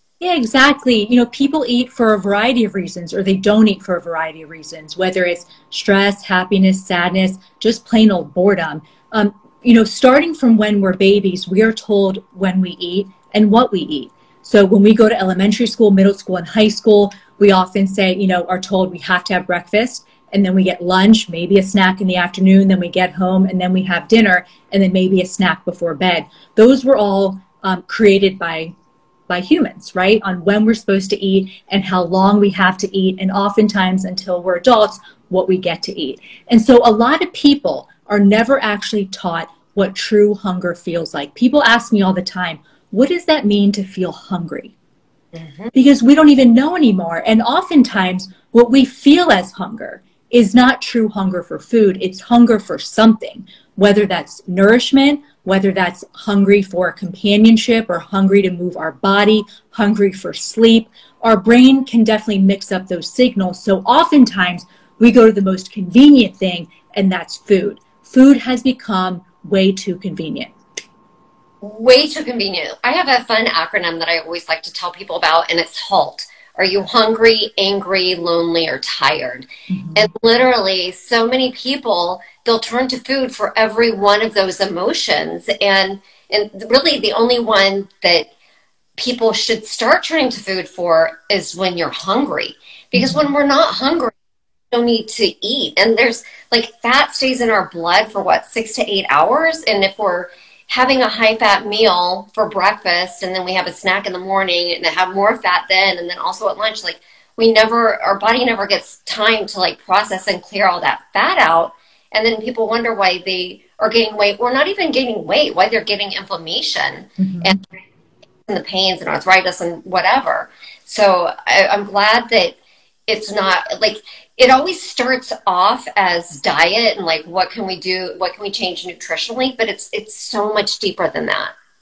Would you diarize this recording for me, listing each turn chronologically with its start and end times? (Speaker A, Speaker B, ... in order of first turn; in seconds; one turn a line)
Speaker A: 0.2-28.7
Speaker A: 29.3-44.7
Speaker B: 45.4-45.7
Speaker A: 45.7-70.5
Speaker B: 71.6-88.3
Speaker A: 79.7-80.1
Speaker B: 89.0-94.2
Speaker A: 93.0-93.2
Speaker B: 94.7-117.6
Speaker A: 117.2-117.6
Speaker B: 118.5-122.6
Speaker B: 123.1-131.5